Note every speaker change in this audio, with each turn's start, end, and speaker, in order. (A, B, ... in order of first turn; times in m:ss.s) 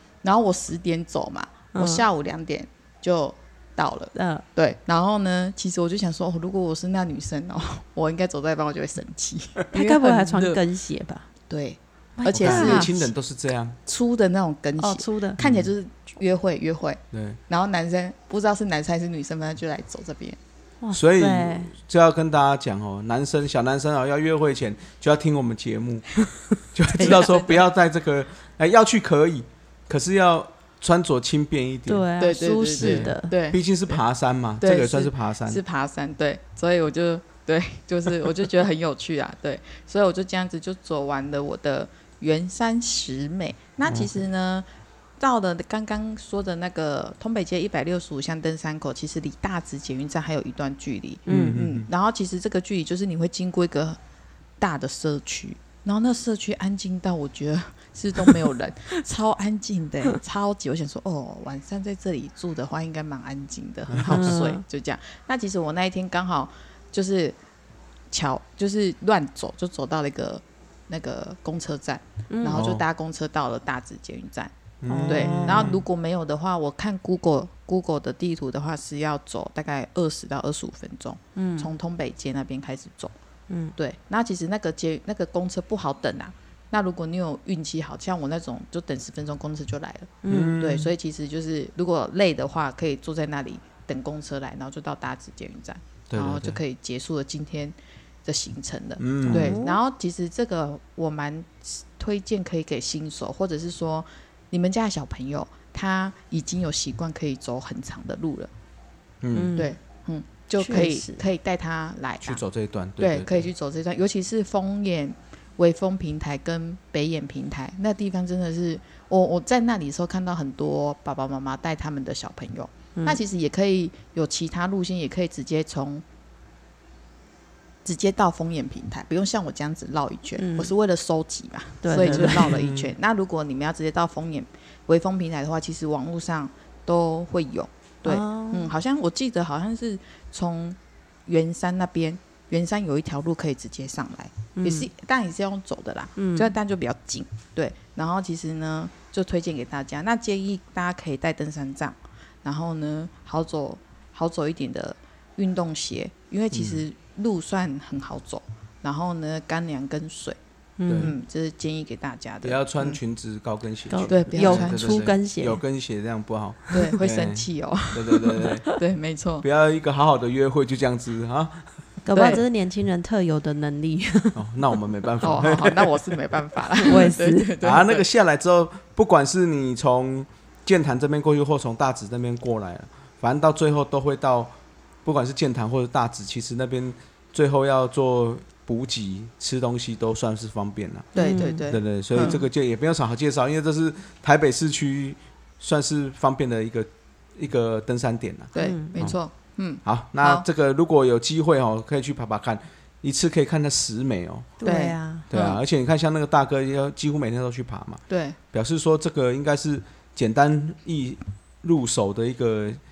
0:00.2-0:10.6 A
0:01.7-0:02.1 B
0:04.1-0:04.4 B
0:09.7-0:11.3 B
0:11.5-0:13.1 A
0:12.2-0:12.9 B
0:12.3-0:13.8 C
0:13.9-0:20.4 A
0:14.8-0:15.4 B
0:15.4-0:15.7 C
0:17.1-0:17.4 C
0:20.8-0:21.7 B
0:20.9-0:26.2 C
0:26.7-0:32.1 C
0:26.9-0:27.6 A
0:26.9-0:27.4 B
0:31.9-0:33.3 B
0:32.2-0:34.0 A
0:32.8-0:35.6 C
0:34.6-0:44.6 A
0:43.9-0:44.1 C
0:45.2-0:54.0 A
0:51.3-0:51.6 B
0:51.3-0:51.9 C
0:54.6-1:07.4 A
1:03.9-1:04.4 C
1:04.1-1:04.6 B
1:08.1-1:14.5 A
1:12.3-1:12.6 B
1:12.5-1:12.8 C
1:14.8-1:15.8 C
1:14.9-1:15.7 B
1:15.0-1:23.1 A
1:21.4-1:21.7 B
1:23.5-1:23.7 B
1:23.8-1:48.5 A
1:30.2-1:30.6 B
1:30.3-1:30.9 C
1:36.1-1:36.6 C
1:39.0-1:39.6 C
1:39.2-1:39.8 B
1:49.2-1:49.6 C
1:49.3-1:49.8 B
1:49.6-1:52.4 A
1:50.6-1:51.2 B
1:52.2-1:53.5 C
1:53.0-2:06.0 A
2:07.8-2:40.4 A
2:10.4-2:10.7 B
2:11.8-2:12.6 B
2:12.0-2:12.9 C
2:18.0-2:18.7 B
2:24.6-2:24.9 B
2:26.2-2:26.6 B
2:36.5-2:36.8 C
2:40.8-2:41.1 B
2:40.9-2:41.1 C
2:41.0-2:43.0 A
2:42.4-2:48.7 C
2:43.9-2:45.6 B
2:44.1-2:45.0 A
2:46.7-2:47.0 B
2:46.7-2:49.4 A
2:49.4-2:51.7 C
2:52.0-2:54.4 B
2:52.1-2:52.4 A
2:54.4-2:56.0 C
2:55.2-2:58.0 A
2:56.8-2:57.5 B
2:57.6-3:19.2 C
3:11.1-3:12.4 A
3:11.2-3:12.4 B
3:18.6-3:20.4 A
3:18.6-3:19.0 B
3:19.8-3:24.6 C
3:24.6-3:25.3 B
3:24.6-3:25.6 A
3:25.3-3:32.8 C
3:28.1-3:28.4 A